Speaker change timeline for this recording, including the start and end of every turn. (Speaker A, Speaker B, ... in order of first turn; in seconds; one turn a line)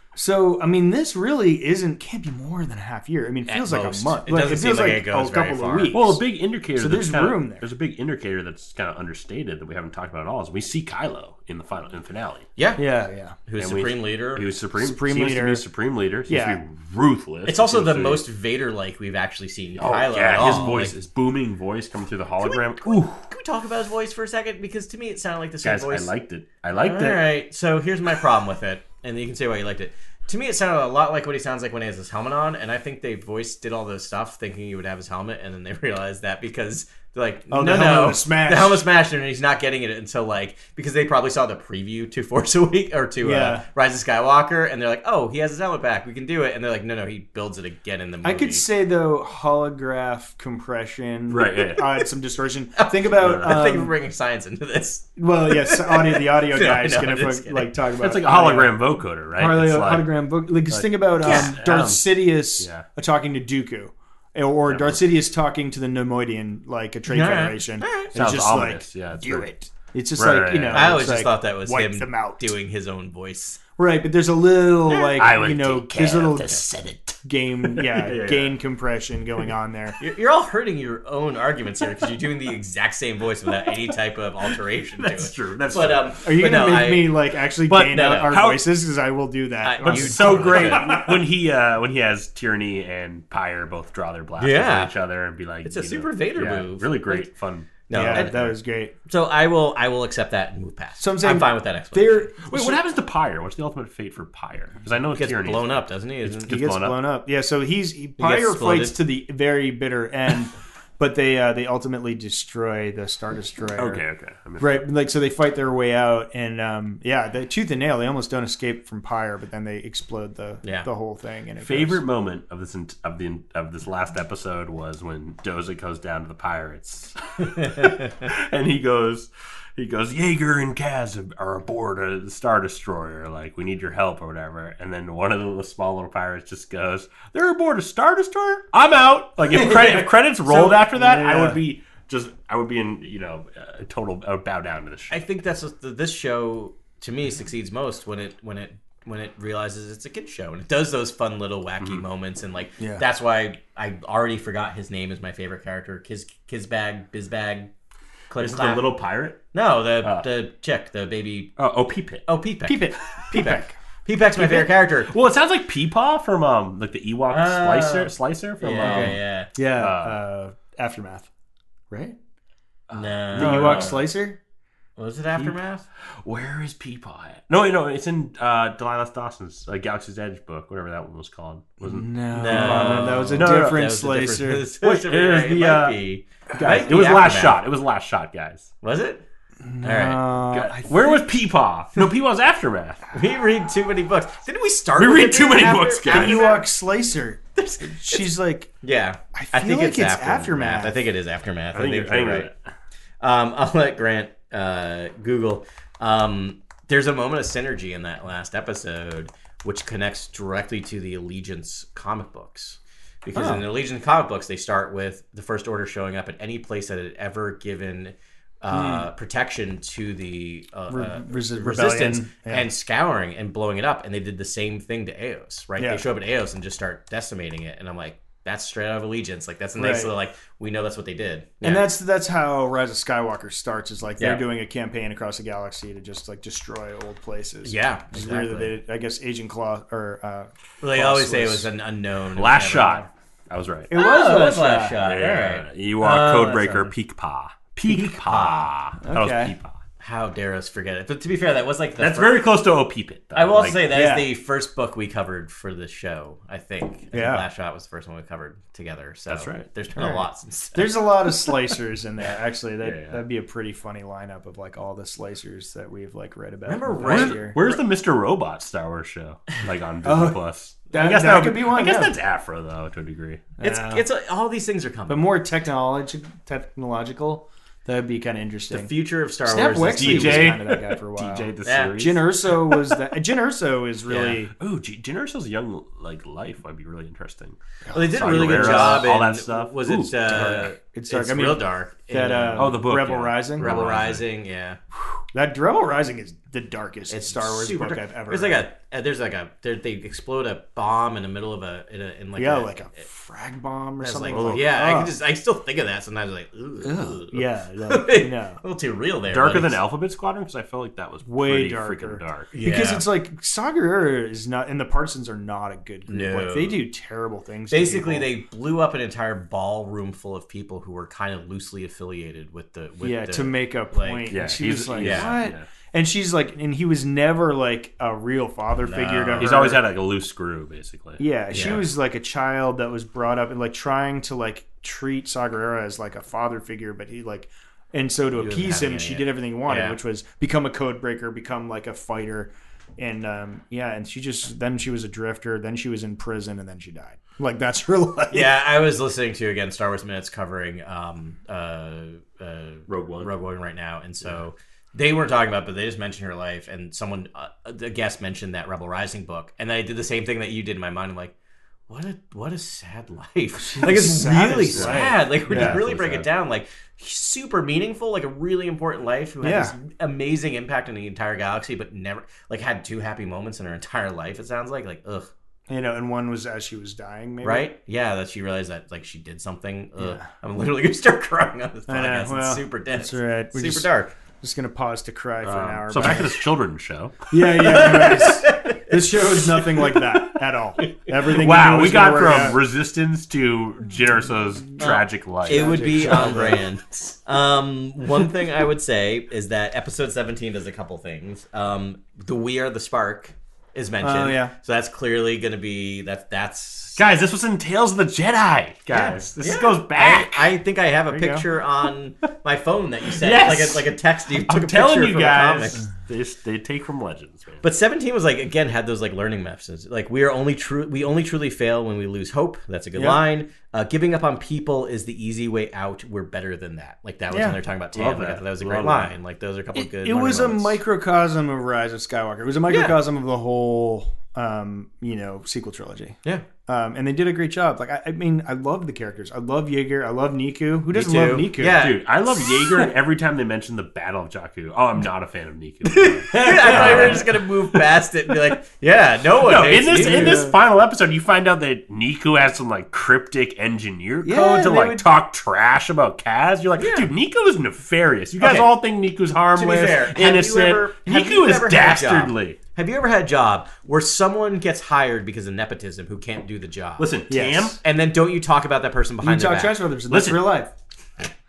Speaker A: 0.1-6.2
Speaker B: 3.5-6.0
Speaker C: 5.9-12.4
Speaker A: 6.7-7.6
Speaker B: 12.6-12.8
Speaker A: 12.8-13.4
Speaker B: 13.4-14.4
Speaker C: 13.6-18.2
Speaker A: 14.7-15.6
Speaker A: 16.3-16.6
Speaker B: 17.4-20.9
Speaker C: 19.8-23.3
Speaker B: 22.4-26.1
Speaker C: 25.6-27.3
Speaker B: 26.8-48.6
Speaker A: 37.5-38.9
Speaker A: 43.2-43.6
Speaker A: 48.2-53.9
Speaker C: 51.3-51.8
Speaker B: 52.8-57.7
Speaker C: 53.2-53.6
Speaker A: 55.2-58.8
Speaker C: 58.0-60.1
Speaker A: 59.3-72.5
Speaker C: 60.7-62.9
Speaker B: 61.2-61.6
Speaker C: 64.7-65.0
Speaker B: 67.1-68.1
Speaker C: 68.1-69.5
Speaker C: 70.1-71.0
Speaker B: 70.7-73.6
Speaker A: 73.8-76.6
Speaker C: 75.1-78.6
Speaker A: 77.2-80.0
Speaker B: 80.0-88.5
Speaker C: 84.5-86.1
Speaker A: 86.2-91.2
Speaker B: 89.6-91.0
Speaker C: 89.8-98.3
Speaker B: 94.4-94.9
Speaker B: 95.6-97.3
Speaker B: 97.9-98.5
Speaker A: 97.9-98.9
Speaker B: 99.1-102.3
Speaker A: 101.0-102.8
Speaker C: 102.4-107.0
Speaker B: 105.2-106.5
Speaker A: 106.5-114.0
Speaker B: 108.2-109.0
Speaker C: 113.8-114.8
Speaker A: 114.6-122.0
Speaker C: 121.6-145.2
Speaker B: 127.6-128.1
Speaker B: 139.5-140.1
Speaker A: 140.4-141.6
Speaker B: 145.1-157.7
Speaker A: 152.8-153.0
Speaker B: 158.3-158.9
Speaker C: 158.3-159.4
Speaker B: 159.5-161.5
Speaker C: 160.0-160.3
Speaker C: 161.6-162.2
Speaker B: 162.2-165.1
Speaker A: 162.7-163.8
Speaker A: 164.3-164.7
Speaker C: 165.0-169.2
Speaker B: 167.3-169.5
Speaker A: 168.8-171.3
Speaker C: 169.7-170.2
Speaker A: 171.9-172.2
Speaker C: 172.9-174.0
Speaker B: 172.9-174.1
Speaker A: 173.3-174.4
Speaker B: 175.0-175.8
Speaker C: 176.2-183.9
Speaker A: 181.8-184.7
Speaker B: 182.3-187.6
Speaker C: 184.8-186.0
Speaker C: 186.5-188.7
Speaker B: 188.8-189.2
Speaker A: 189.6-191.2
Speaker B: 189.8-190.2
Speaker C: 190.5-193.1
Speaker B: 193.1-196.7
Speaker C: 195.0-196.5
Speaker A: 196.0-198.7
Speaker B: 197.6-202.5
Speaker A: 199.3-201.0
Speaker C: 201.7-202.6
Speaker B: 203.2-231.8
Speaker A: 213.3-213.6
Speaker A: 218.7-219.1
Speaker A: 220.9-222.7
Speaker A: 225.8-226.0
Speaker A: 229.8-230.1
Speaker A: 231.6-241.7
Speaker B: 234.2-234.4
Speaker B: 237.6-238.8
Speaker B: 240.8-243.1
Speaker C: 242.3-244.0
Speaker A: 243.9-245.1
Speaker B: 243.9-246.9
Speaker C: 245.0-249.8
Speaker B: 247.8-248.7
Speaker A: 249.0-249.5
Speaker B: 250.0-252.5
Speaker C: 252.0-253.9
Speaker B: 253.3-261.6
Speaker A: 253.9-254.3
Speaker A: 257.1-257.5
Speaker C: 259.3-259.6
Speaker A: 259.9-267.6
Speaker C: 262.8-263.2
Speaker B: 266.6-267.8
Speaker C: 267.0-273.5
Speaker A: 270.0-270.4
Speaker A: 270.9-272.2
Speaker A: 273.6-274.0
Speaker B: 273.6-275.3
Speaker A: 275.1-278.9
Speaker B: 278.7-280.6
Speaker A: 279.4-284.5
Speaker C: 280.0-283.0
Speaker B: 281.6-281.9
Speaker B: 284.1-284.4
Speaker C: 284.6-287.6
Speaker A: 287.9-289.1
Speaker B: 287.9-292.8
Speaker C: 288.1-290.6
Speaker A: 290.3-293.7
Speaker C: 292.6-294.2
Speaker B: 293.6-294.8
Speaker A: 295.3-298.6
Speaker B: 297.1-303.0
Speaker A: 302.4-305.1
Speaker B: 304.0-309.7
Speaker A: 306.8-308.6
Speaker C: 309.3-312.5
Speaker A: 311.2-318.3
Speaker B: 312.5-313.0
Speaker B: 316.1-316.8
Speaker B: 317.7-324.4
Speaker A: 323.0-329.8
Speaker C: 324.3-325.7
Speaker B: 324.9-325.4
Speaker B: 328.8-329.6
Speaker C: 329.4-331.8
Speaker A: 331.2-348.5
Speaker B: 331.5-331.9
Speaker B: 338.4-340.0
Speaker B: 348.3-361.3
Speaker C: 352.9-353.3
Speaker B: 361.9-375.3
Speaker A: 363.6-365.8
Speaker C: 364.7-366.3
Speaker A: 369.4-369.7
Speaker A: 375.7-377.7
Speaker B: 377.4-384.1
Speaker A: 380.0-380.2
Speaker A: 381.9-383.9
Speaker A: 384.4-386.4
Speaker C: 385.4-387.9
Speaker A: 387.3-392.6
Speaker B: 387.6-390.0
Speaker C: 391.2-396.4
Speaker B: 394.8-407.0
Speaker A: 395.4-396.6
Speaker A: 404.0-404.5
Speaker C: 406.9-410.5
Speaker B: 408.9-415.8
Speaker A: 411.1-411.4
Speaker C: 413.1-417.6
Speaker B: 417.6-430.8
Speaker A: 422.9-423.2
Speaker A: 427.3-427.6
Speaker C: 427.9-429.1
Speaker A: 429.7-441.8
Speaker B: 432.7-432.9
Speaker B: 440.9-442.9
Speaker C: 441.7-447.8
Speaker B: 445.9-450.5
Speaker A: 446.4-447.3
Speaker C: 449.4-462.6
Speaker A: 449.9-450.6
Speaker A: 454.2-455.1
Speaker B: 456.8-457.1
Speaker B: 458.4-458.7
Speaker B: 459.5-467.1
Speaker C: 467.0-467.8
Speaker A: 467.3-467.8
Speaker B: 467.8-469.7
Speaker A: 469.2-470.7
Speaker C: 470.1-470.5